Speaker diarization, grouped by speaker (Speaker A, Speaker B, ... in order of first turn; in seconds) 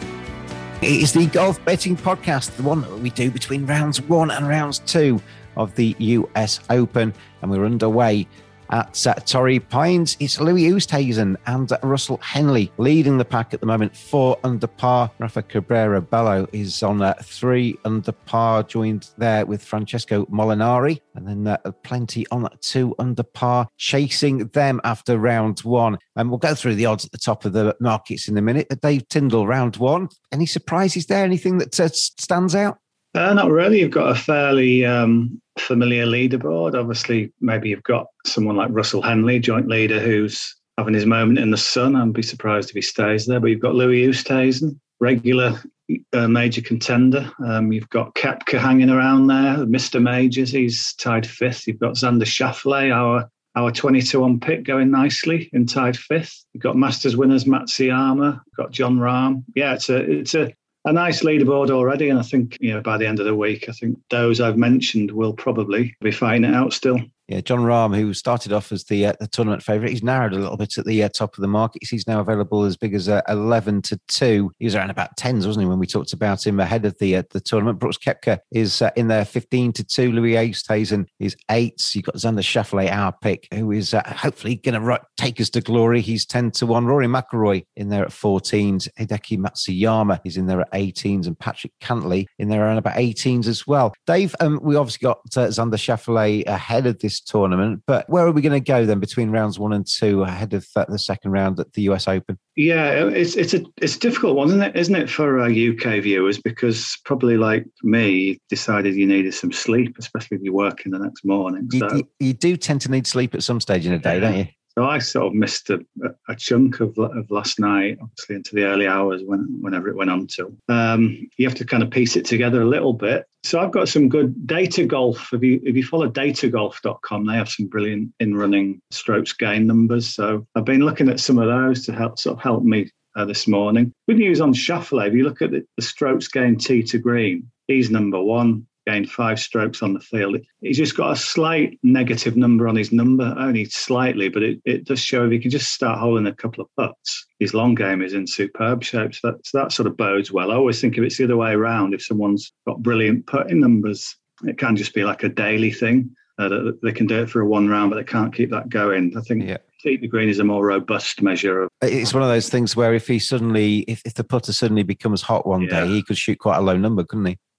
Speaker A: 0.8-32.8, 67.3-102.4, 111.7-114.5, 161.8-167.4
Speaker B: 33.1-67.0, 102.5-112.0, 114.0-161.7, 165.6-165.9